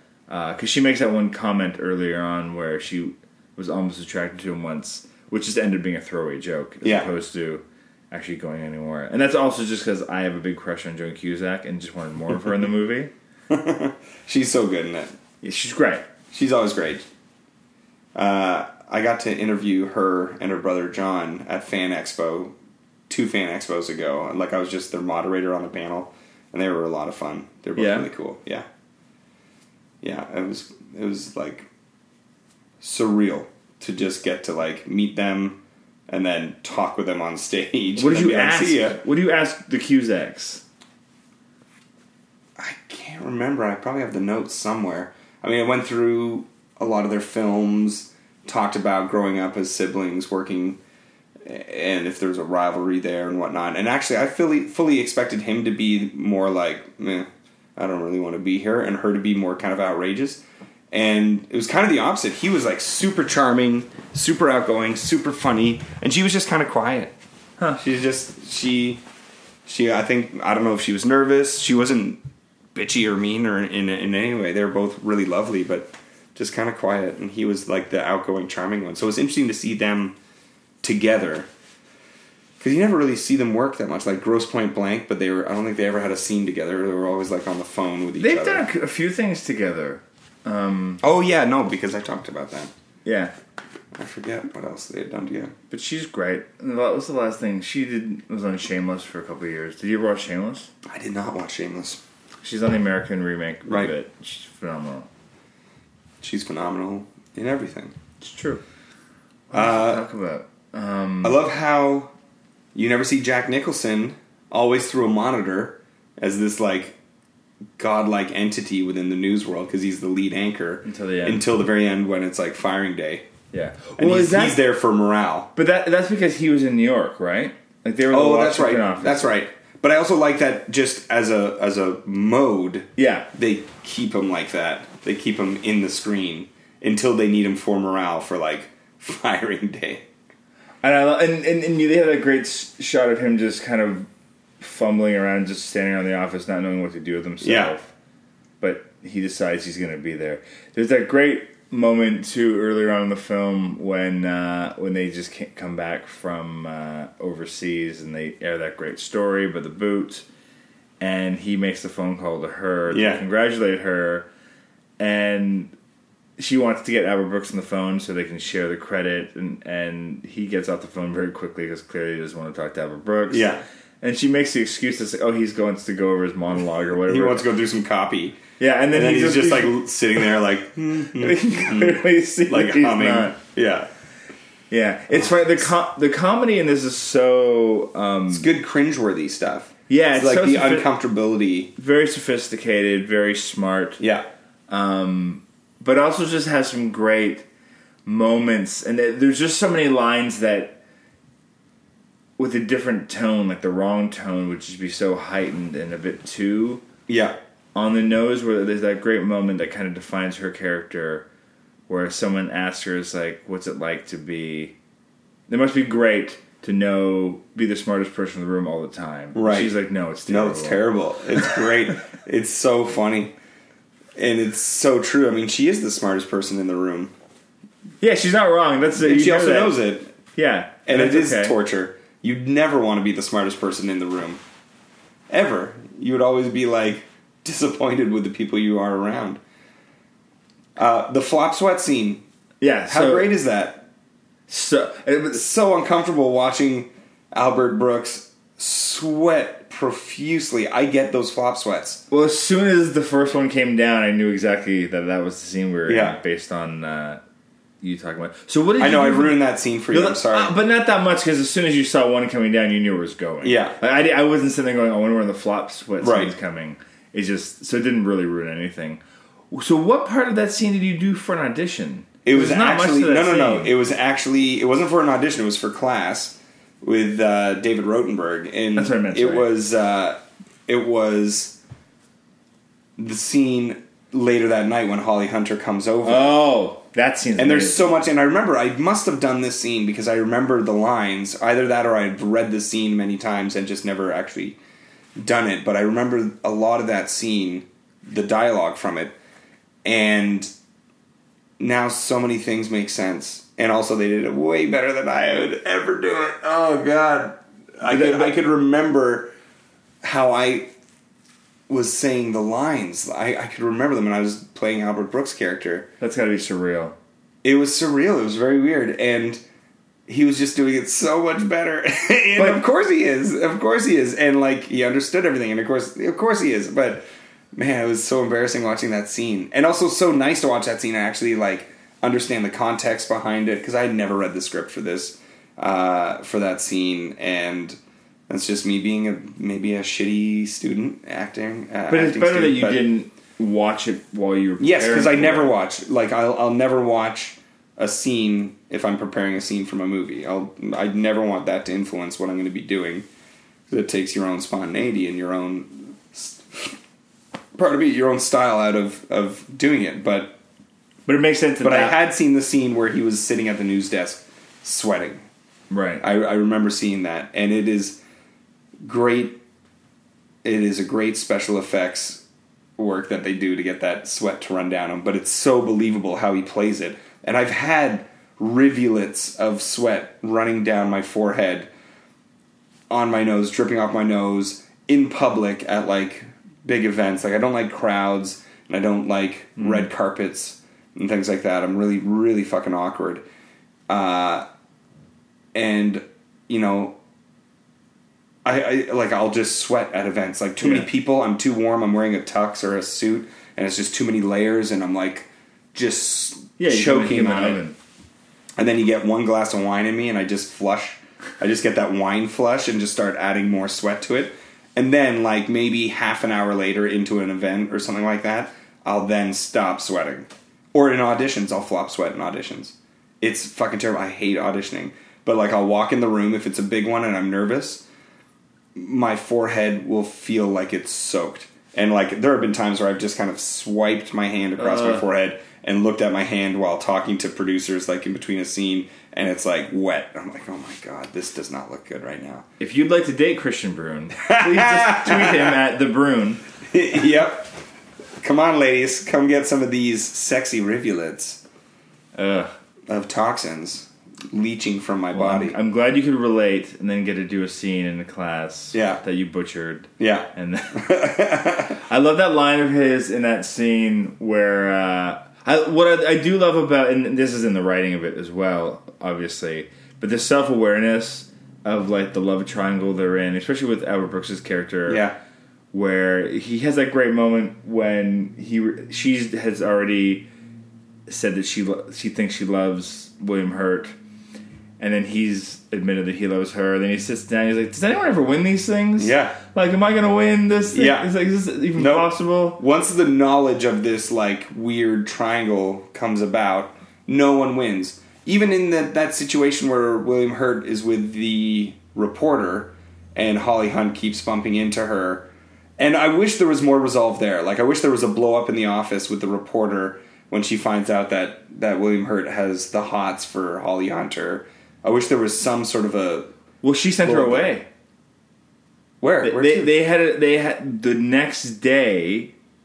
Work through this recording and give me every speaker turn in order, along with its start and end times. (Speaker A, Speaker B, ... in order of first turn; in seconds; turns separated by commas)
Speaker A: 0.3-13.1, Speaker B: 6.8-7.1, Speaker B: 13.5-15.1, Speaker A: 15.4-16.0, Speaker B: 16.3-17.0, Speaker B: 18.1-22.5, Speaker B: 23.1-28.6, Speaker A: 27.8-28.1, Speaker B: 30.0-31.7, Speaker B: 32.8-39.0, Speaker A: 38.0-40.6, Speaker B: 42.6-50.8, Speaker B: 51.4-67.1, Speaker B: 67.8-69.0, Speaker B: 69.7-72.2, Speaker B: 72.7-80.2, Speaker B: 80.8-81.5, Speaker B: 82.6-88.7, Speaker A: 88.2-91.0, Speaker B: 91.0-92.7, Speaker A: 93.0-93.3, Speaker B: 93.9-95.5, Speaker A: 95.7-100.7, Speaker B: 100.8-102.0, Speaker A: 102.4-105.1, Speaker B: 103.7-103.9, Speaker B: 106.2-107.9, Speaker A: 108.2-108.6, Speaker A: 109.5-111.4, Speaker B: 109.5-110.0, Speaker B: 111.2-112.1, Speaker B: 112.7-117.0, Speaker B: 117.8-123.2, Speaker A: 120.8-121.4, Speaker A: 123.5-124.6, Speaker B: 124.0-125.5, Speaker A: 125.5-129.2, Speaker B: 128.1-140.0, Speaker A: 133.0-133.3, Speaker A: 140.8-144.1, Speaker A: 144.6-147.9, Speaker B: 147.4-147.7, Speaker A: 148.6-160.2, Speaker A: 161.0-164.3, Speaker B: 162.9-163.2, Speaker A: 165.0-165.7, Speaker A: 166.4-177.5, Speaker B: 173.3-173.6, Speaker B: 177.0-178.4, Speaker A: 178.6-179.9, Speaker B: 178.9-183.9, Speaker A: 181.1-183.3, Speaker A: 184.7-188.5, Speaker B: 185.1-185.7, Speaker B: 188.3-191.7, Speaker A: 189.9-190.9, Speaker A: 191.8-194.0, Speaker B: 194.0-194.3, Speaker A: 194.7-197.4, Speaker A: 198.1-200.8, Speaker A: 202.4-206.8, Speaker B: 207.1-207.4, Speaker A: 207.7-211.2, Speaker A: 211.9-214.7, Speaker A: 215.5-220.9, Speaker B: 219.3-219.7, Speaker B: 220.3-223.3, Speaker B: 224.2-227.1, Speaker A: 228.0-229.8, Speaker B: 229.0-230.1, Speaker A: 230.3-231.5, Speaker B: 230.9-234.4, Speaker B: 235.3-239.4, Speaker B: 240.8-242.2, Speaker A: 242.6-243.3, Speaker B: 242.9-243.8, Speaker A: 244.5-245.4, Speaker B: 245.3-252.0, Speaker A: 252.1-257.2, Speaker B: 255.9-256.2, Speaker A: 257.8-259.4, Speaker B: 258.8-260.5, Speaker A: 259.9-273.7, Speaker B: 263.4-263.8, Speaker B: 266.0-266.3, Speaker B: 272.2-281.6, Speaker A: 278.8-279.5, Speaker B: 283.0-286.4, Speaker A: 286.0-288.0, Speaker B: 287.4-294.6, Speaker B: 295.1-299.1, Speaker B: 299.8-300.5, Speaker B: 301.6-309.3, Speaker A: 307.8-308.4, Speaker B: 310.0-310.7, Speaker B: 311.7-315.9, Speaker A: 316.0-316.9, Speaker B: 317.4-319.4, Speaker B: 320.1-337.8, Speaker B: 338.3-342.8, Speaker A: 341.9-345.5, Speaker B: 344.6-353.1, Speaker B: 353.7-356.8, Speaker B: 357.5-360.4, Speaker A: 361.1-362.0, Speaker B: 361.6-365.2, Speaker A: 365.7-366.0, Speaker B: 366.0-368.0, Speaker B: 368.8-369.4, Speaker B: 370.4-372.2, Speaker B: 372.8-381.7, Speaker B: 382.9-393.2, Speaker A: 389.6-389.9, Speaker B: 393.9-394.4, Speaker B: 395.5-396.9, Speaker B: 398.4-407.6, Speaker A: 400.6-400.9, Speaker A: 406.6-407.8, Speaker B: 408.6-427.8, Speaker B: 428.8-442.4, Speaker A: 434.6-435.0, Speaker A: 442.6-446.4, Speaker B: 444.3-445.6, Speaker B: 446.6-447.5, Speaker B: 448.2-451.4, Speaker A: 452.1-452.5, Speaker B: 452.9-455.6, Speaker A: 455.1-461.0, Speaker B: 458.7-459.0, Speaker B: 460.0-461.8, Speaker A: 461.8-475.0, Speaker B: 474.9-475.2, Speaker A: 475.7-480.3, Speaker A: 481.1-483.9, Speaker A: 484.8-492.6, Speaker B: 489.0-489.4, Speaker B: 490.7-491.1, Speaker B: 491.8-516.3, Speaker A: 516.6-517.7, Speaker B: 517.0-517.5, Speaker B: 519.0-519.8, Speaker A: 519.2-522.3